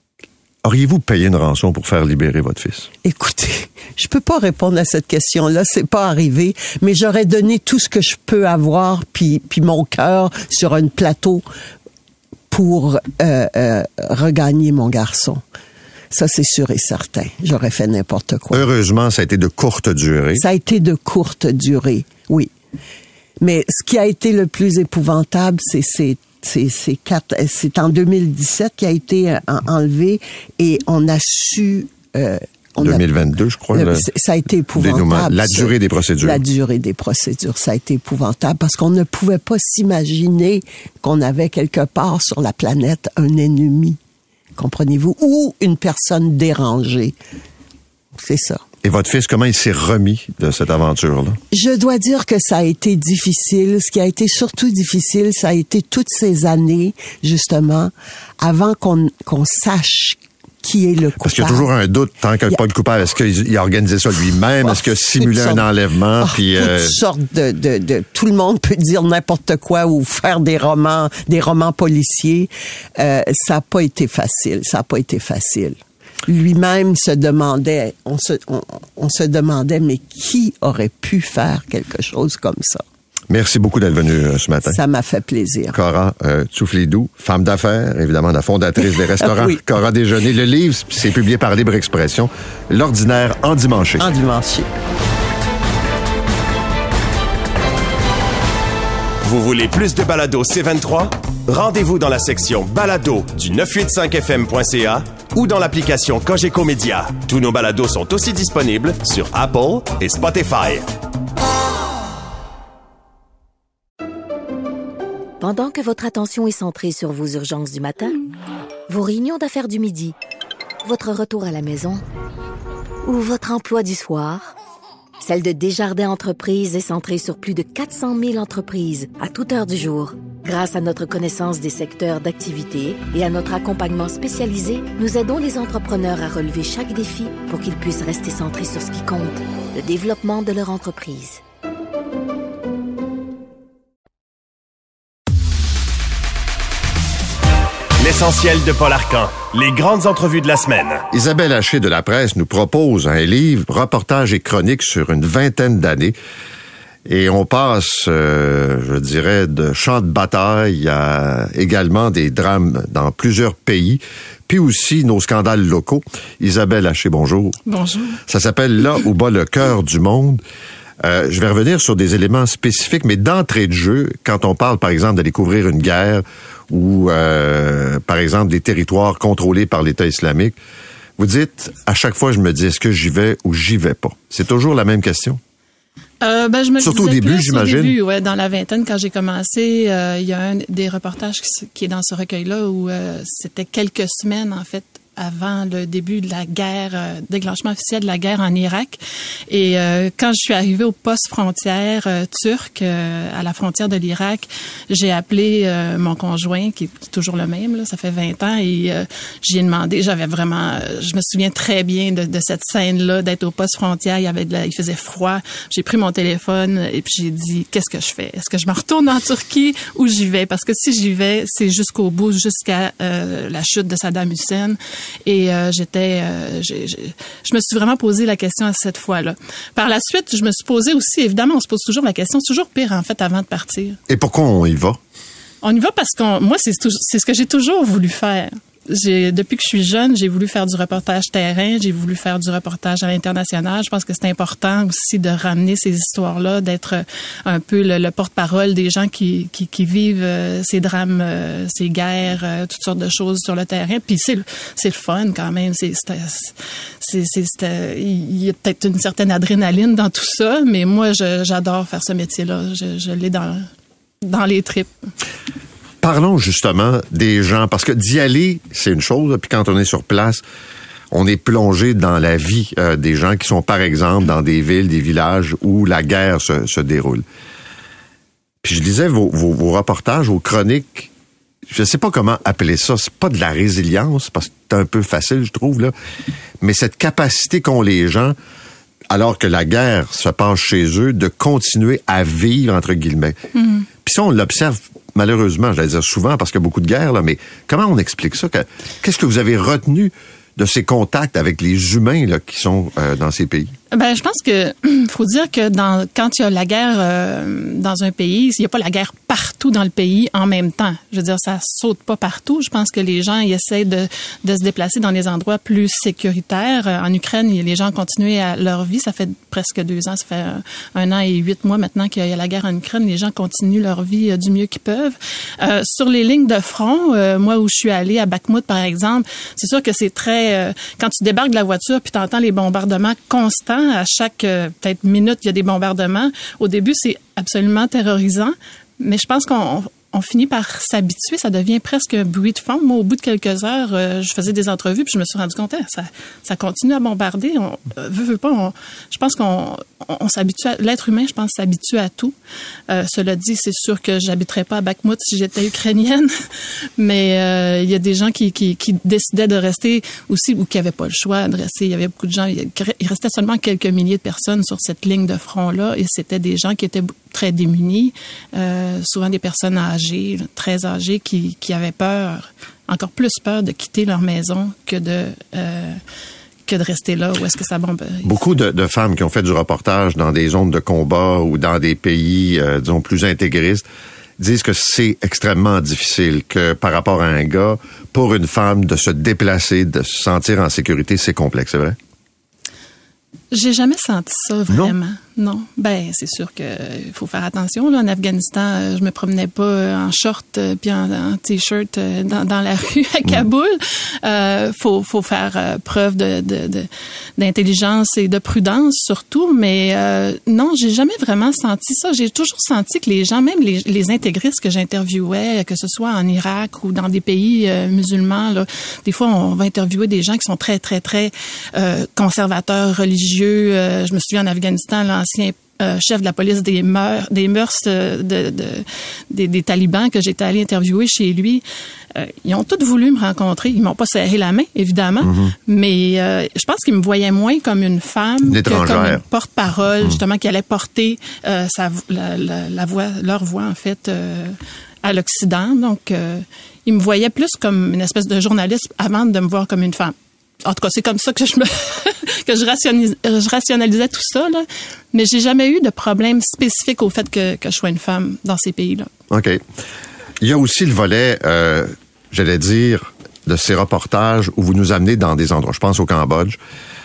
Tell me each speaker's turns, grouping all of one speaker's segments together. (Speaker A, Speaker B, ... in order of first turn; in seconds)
Speaker A: 0.6-2.9, 18.5-20.4, 32.8-34.1, 34.8-36.4, 48.8-51.4, 61.2-67.0, 83.3-84.8, 85.7-94.0, 151.1-156.1, 157.1-167.6, 168.3-170.4, 171.0-180.6, 181.2-185.4, 186.8-187.9, 234.1-235.0, 266.0-270.4, 271.1-277.2, 278.6-281.1, 281.7-285.9, 286.6-288.4, 289.1-293.4, 294.0-303.7, 378.2-383.8, 384.4-392.0, 435.2-435.5, 438.4-439.2, 459.3-459.6, 460.4-466.6
Speaker B: 3.0-11.4, 12.5-15.4, 16.1-18.6, 20.3-22.5, 23.4-33.0, 33.7-44.0, 44.6-47.1, 48.2-48.6, 51.5-61.7, 64.7-65.6, 66.2-82.8, 84.7-85.8, 89.2-89.6, 94.0-94.7
Speaker C: 99.2-110.9, 148.0-151.0
Speaker D: 115.4-118.2, 118.9-120.1, 120.8-122.0, 123.0-124.5, 125.2-141.4
Speaker E: 167.7-168.2, 186.2-234.0, 235.6-263.7, 264.2-264.9, 293.6-293.9, 303.9-352.4, 352.9-356.3, 357.0-376.0, 376.6-378.3, 393.5-450.1, 450.6-459.1